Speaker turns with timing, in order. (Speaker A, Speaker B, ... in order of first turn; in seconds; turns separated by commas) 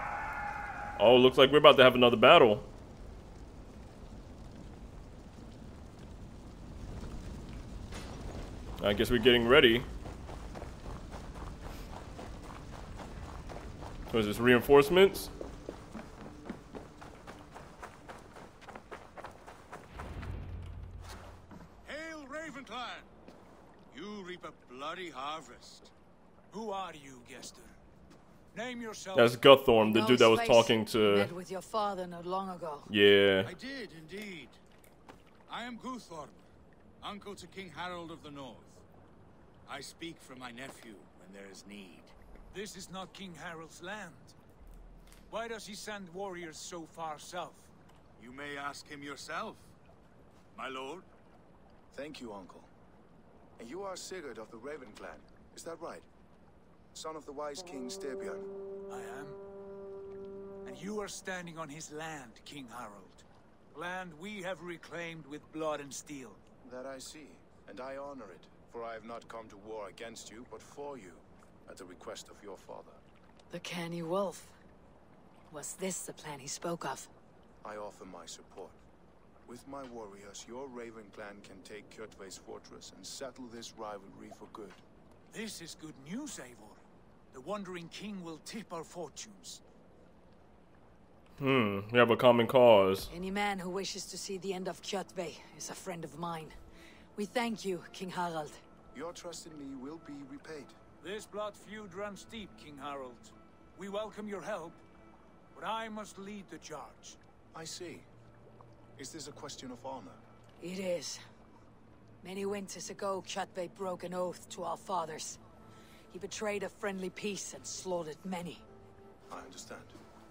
Speaker A: 1.0-2.6, Speaker A: 8.8-9.9, Speaker A: 14.1-15.3, Speaker B: 21.8-23.1, Speaker B: 23.9-25.9, Speaker C: 26.5-27.8, Speaker C: 28.5-29.4, Speaker A: 29.1-31.3, Speaker D: 29.8-32.9, Speaker A: 32.9-33.5, Speaker B: 33.4-34.6, Speaker B: 35.5-36.5, Speaker B: 37.0-38.8, Speaker B: 39.6-42.1, Speaker C: 42.5-44.3, Speaker C: 45.3-47.7, Speaker B: 48.2-49.7, Speaker B: 50.5-51.0, Speaker E: 51.9-52.7, Speaker E: 53.6-56.1, Speaker E: 56.9-58.5, Speaker C: 58.9-59.4, Speaker C: 60.6-66.4, Speaker E: 66.6-73.0, Speaker D: 73.5-74.5, Speaker D: 75.5-77.1, Speaker E: 77.6-78.8, Speaker E: 79.5-84.8, Speaker C: 85.3-89.6, Speaker A: 91.4-93.1, Speaker D: 93.1-96.5, Speaker D: 97.2-98.6, Speaker E: 98.9-100.8, Speaker C: 101.0-104.8, Speaker C: 105.5-107.2, Speaker E: 107.5-108.1, Speaker E: 109.0-110.2, Speaker D: 110.6-111.2, Speaker D: 112.2-115.4, Speaker D: 116.1-118.6, Speaker E: 119.3-120.0